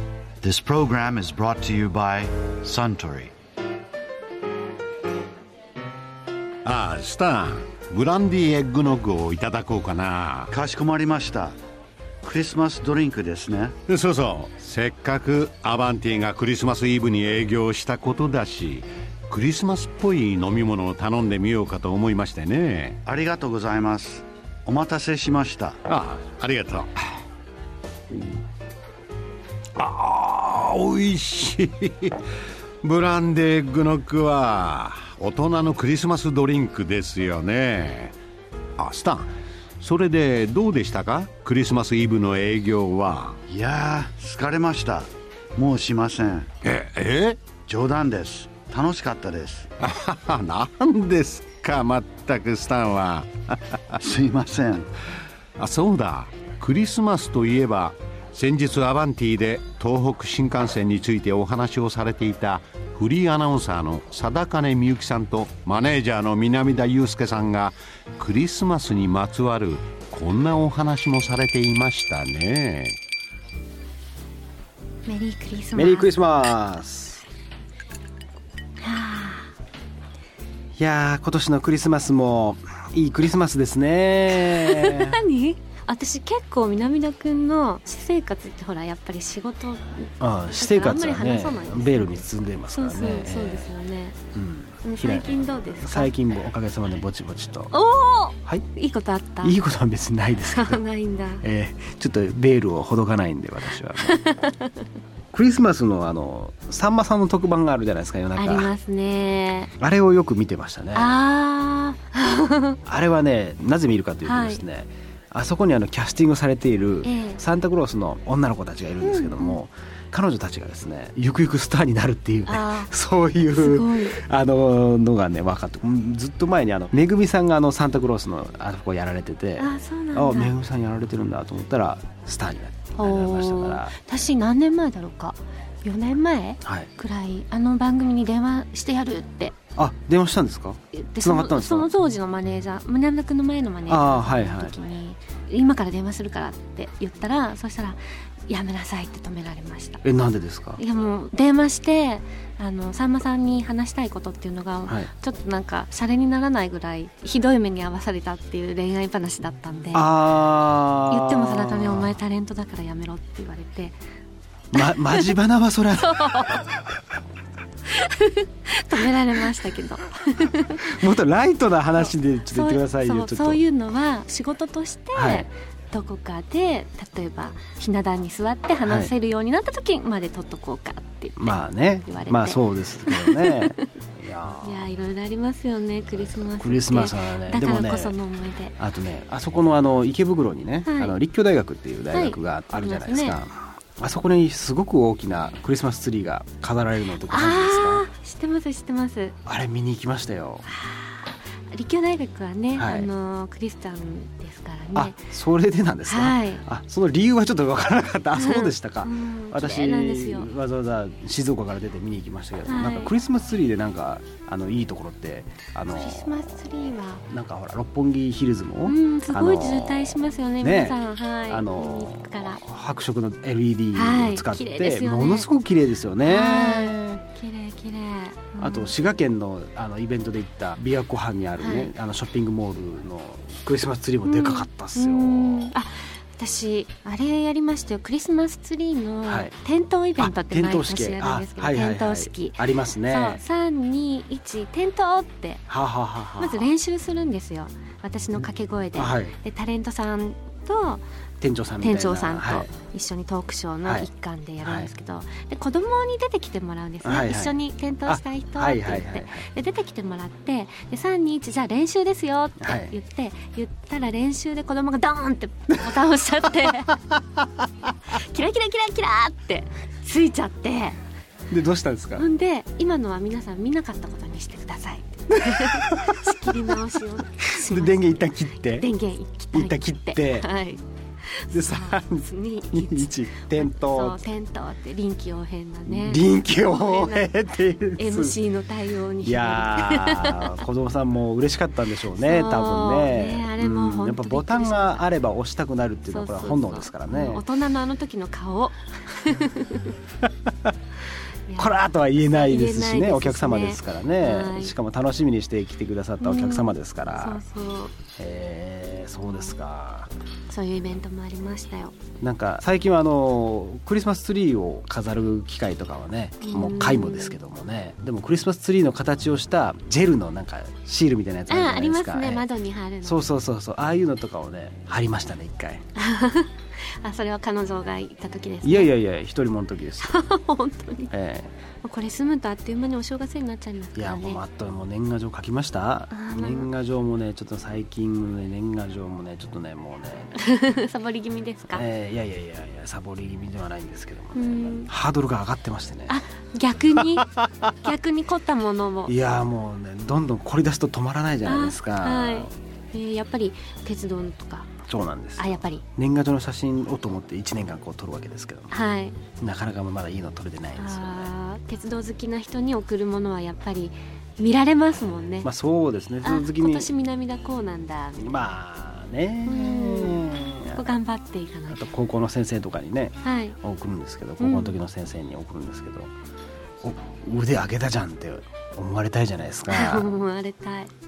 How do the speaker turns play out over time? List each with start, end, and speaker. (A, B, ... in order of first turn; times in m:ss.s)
0:00.4-0:03.3 A
0:06.6-0:10.5 B
0:10.5-0:11.6 A
0:12.2-0:13.7 A
0:13.9-0:23.0 B
0:23.0-0:25.8 A
0:25.9-0:26.9 B
0:29.8-0:32.2 B
0:32.8-0:38.1 B
0:38.8-0:39.3 B
0:39.8-0:43.4 B
0:43.5-0:46.5 A
0:46.6-0:47.4 B
0:47.6-0:49.7 A
0:49.8-0:54.0 B
0:54.0-0:54.9 A
0:55.6-1:13.0 B
1:15.0-1:16.1 C
1:15.7-1:17.2 D
1:18.8-1:19.5 C
1:20.8-1:25.2 D
1:24.4-1:34.2 C
1:30.2-1:33.7 D
1:34.3-1:37.7 D
1:34.8-1:36.1 C
1:37.7-1:39.6 C
1:39.4-1:40.8 D
1:40.5-1:41.4 C
1:41.4-1:44.2 D
1:44.0-1:44.9 C
1:45.3-1:48.7 D
1:48.4-1:49.7 C
1:49.8-1:51.2 D
1:50.9-1:52.8 C
1:52.8-2:14.0 D
1:54.2-1:54.6 C
1:57.0-1:57.4 C
1:59.0-1:59.6 C
2:02.5-2:02.9 C
2:03.5-2:04.2 C
2:09.6-2:10.5 C
2:13.0-2:19.6 C
2:16.6-2:16.9 D
2:19.8-2:21.9 D
2:20.9-2:30.0 C
2:23.9-2:24.7 D
2:30.0-2:30.8 D
2:30.8-2:40.1 C
2:39.9-2:42.1 D
2:41.1-2:44.0 C
2:44.7-2:46.2 D
2:44.8-2:45.3 C
2:46.0-2:46.8 C
2:47.9-2:51.0 C
2:50.9-2:53.6 D
2:52.0-3:03.8 C
2:55.1-2:55.5 D
2:58.8-2:59.1 D
3:01.4-3:04.9 D
3:04.6-3:08.7 C
3:06.1-3:08.2 D
3:08.8-3:18.1 D
3:10.8-3:11.2 C
3:12.1-3:13.4 C
3:17.2-3:19.4 C
3:19.4-3:20.7 D
3:20.7-3:25.2 C
3:22.7-3:23.1 D
3:24.9-3:36.4 D
3:26.0-3:26.6 C
3:28.3-3:30.5 C
3:32.6-3:33.1 C
3:35.9-3:37.2 C
3:37.3-3:47.2 D
3:38.8-3:42.6 C
3:43.9-3:45.5 C
3:46.2-3:48.9 C
3:48.6-3:55.7 D
3:51.6-3:51.9 C
3:54.2-4:05.6 C
3:59.2-3:59.5 D
4:00.2-4:03.4 D
4:05.7-4:06.7 D
4:06.4-4:11.0 C
4:08.9-4:09.4 D
4:11.4-4:12.7 D
4:11.8-4:27.0 C
4:13.8-4:14.1 D
4:14.6-4:14.9 D
4:17.0-4:19.4 D
4:22.6-4:22.9 D
4:28.0-4:31.0 C
4:31.5-4:32.3 D
4:32.2-4:47.3 C
4:35.5-4:36.7 D
4:37.4-4:38.9 D
4:39.5-4:40.5 D
4:41.5-4:44.2 D
4:45.8-4:48.4 D
4:48.0-4:50.6 C
4:49.2-4:57.4 D
4:52.2-4:55.1 C
4:56.1-4:59.9 C
5:00.5-5:00.7 D
5:01.5-5:04.7 C
5:01.6-5:07.4 D
5:06.2-5:07.9 C
5:08.2-5:10.1 D
5:10.5-5:12.0 C
5:12.2-5:22.5 D
5:16.4-5:17.4 C
5:21.5-5:23.3 C
5:23.0-5:25.8 D
5:26.0-5:28.9 C
5:28.6-5:30.2 D
5:30.0-5:31.1 C
5:31.1-5:31.5 D
5:31.8-5:34.4 C
5:33.9-5:40.4 D
5:36.1-5:36.7 C
5:40.4-5:41.8 C
5:41.7-5:46.2 D
5:44.3-5:44.9 C
5:46.1-5:49.1 C
5:49.1-5:52.5 D
5:51.4-5:54.7 C
5:54.8-5:58.7 D
5:55.4-5:55.8 C
5:58.7-5:59.2 C
5:59.4-6:01.3 D
6:00.8-6:05.5 C
6:05.4-6:06.9 D
6:06.2-6:08.4 C
6:08.2-6:10.8 D
6:09.4-6:11.8 C
6:11.7-6:16.1 D
6:13.2-6:13.6 C
6:14.4-6:14.8 C
6:16.8-6:20.1 D
6:19.7-6:20.9 C